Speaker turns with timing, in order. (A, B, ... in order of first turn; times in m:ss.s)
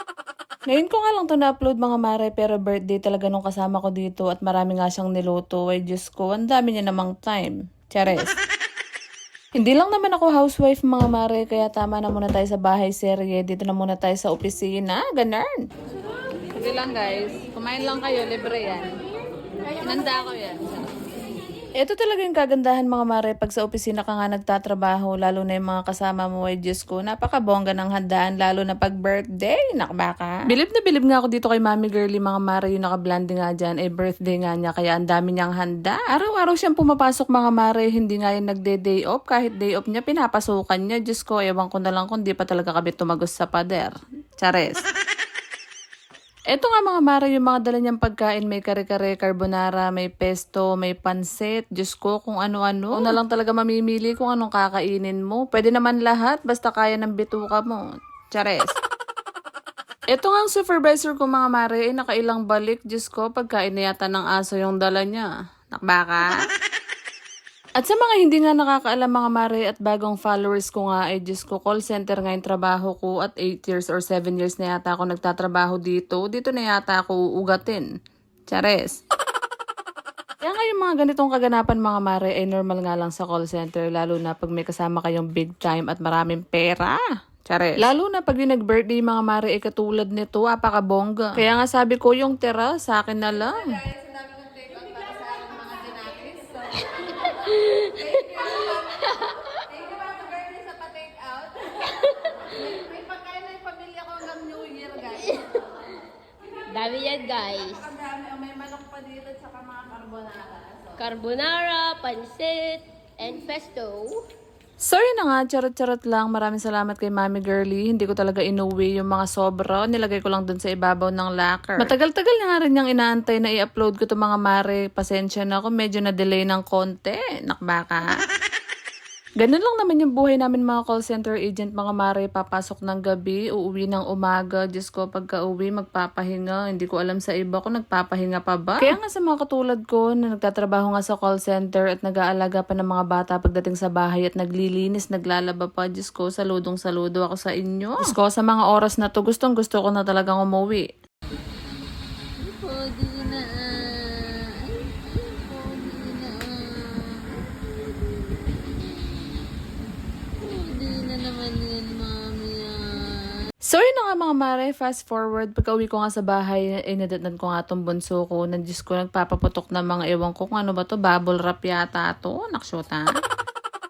0:00.7-0:08.3 A
0:09.6-0:15.6 A
0:16.6-0:18.8 A
0:19.9-0:20.6 A
0:21.8-0:44.8 A
0:46.5-0:58.7 A
1:00.1-1:06.4 A
1:07.8-1:17.9 A
1:18.5-1:19.0 A
1:20.4-1:27.0 A
1:27.6-1:33.8 A
1:33.9-1:36.7 B
1:37.3-1:38.4 C
1:39.0-1:39.4 C
1:39.7-1:41.6 B
1:42.8-1:45.1 B
1:45.2-1:45.6 C
1:46.7-1:47.9 C
1:48.0-1:50.9 B
1:51.0-1:54.2 C
1:54.8-2:08.1 A
2:09.4-2:30.8 A
2:43.7-2:53.1 A